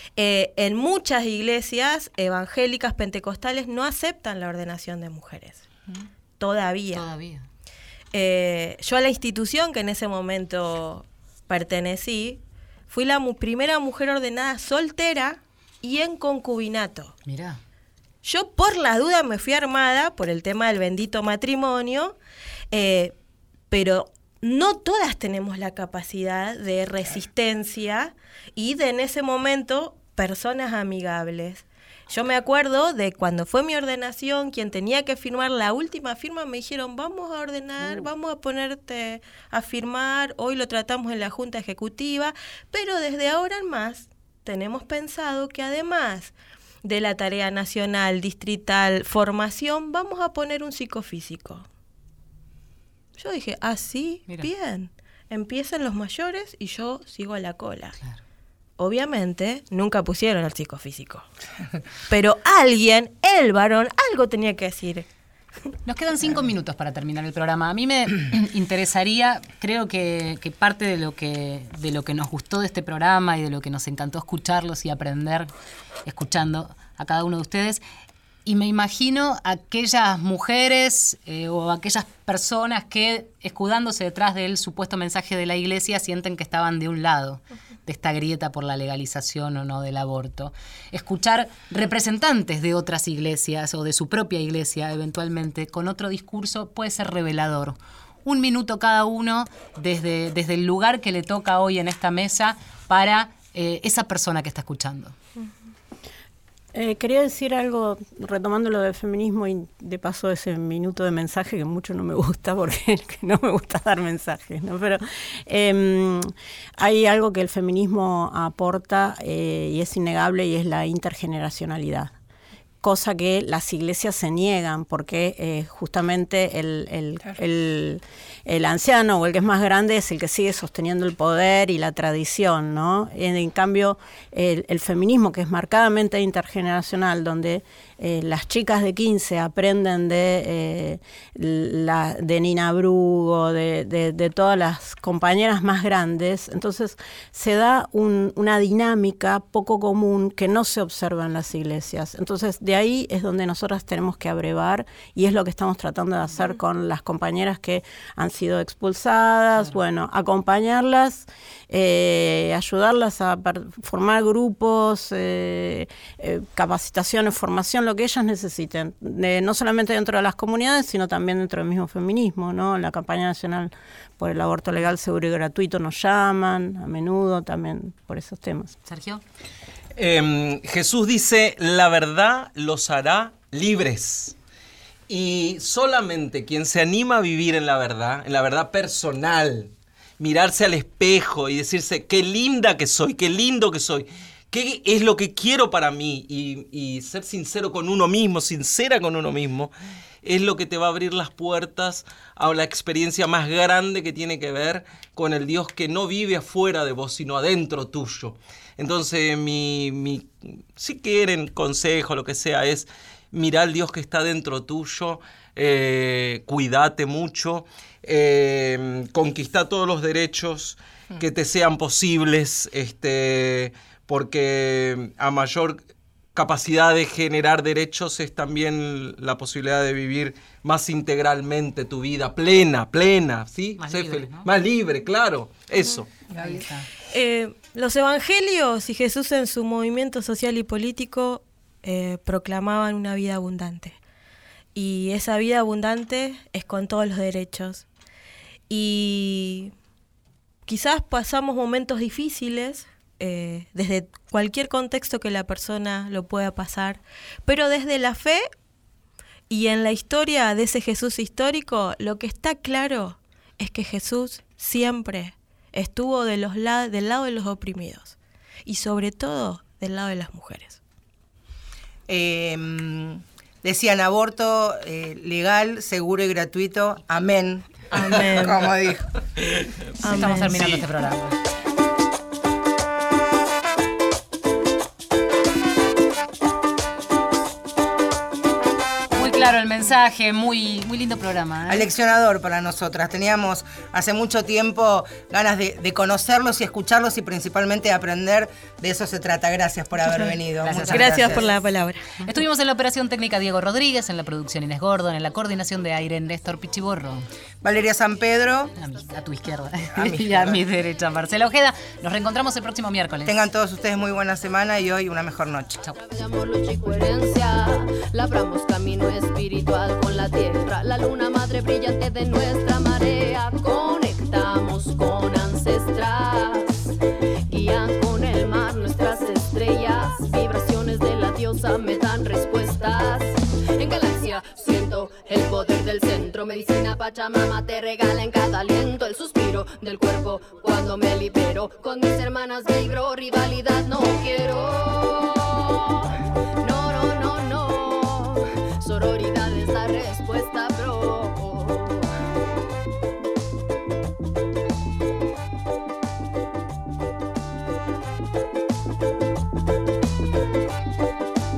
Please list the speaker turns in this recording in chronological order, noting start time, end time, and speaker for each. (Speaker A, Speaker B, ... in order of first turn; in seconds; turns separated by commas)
Speaker A: 0.2-5.6, Speaker A: 6.4-7.1, Speaker B: 6.9-7.5, Speaker A: 8.1-17.1, Speaker B: 17.3-17.6, Speaker A: 18.2-22.1, Speaker A: 22.7-23.1, Speaker A: 23.7-46.3, Speaker A: 46.8-51.7, Speaker A: 53.2-58.0, Speaker A: 58.8-61.3, Speaker A: 62.1-65.1, Speaker B: 65.9-75.5, Speaker B: 76.1-77.8, Speaker B: 78.5-105.2, Speaker C: 106.7-122.1, Speaker C: 122.8-178.8, Speaker B: 178.9-179.2, Speaker D: 179.9-184.3, Speaker D: 185.1-225.8, Speaker D: 226.3-236.1, Speaker B: 233.8-234.5, Speaker B: 236.4-236.9, Speaker A: 236.4-244.0, Speaker A: 244.8-247.9, Speaker A: 248.7-249.7, Speaker A: 250.7-258.5, Speaker A: 259.5-270.8, Speaker E: 272.1-279.1, Speaker A: 277.9-278.7, Speaker A: 280.0-280.8, Speaker B: 280.1-281.4, Speaker B: 289.1-291.9, Speaker E: 291.7-301.5, Speaker B: 300.6-301.5, Speaker A: 300.8-302.1, Speaker B: 302.2-307.3, Speaker E: 307.6-308.7, Speaker B: 308.8-313.3, Speaker E: 309.9-310.6, Speaker E: 313.3-315.8, Speaker F: 316.0-326.9, Speaker F: 327.5-352.1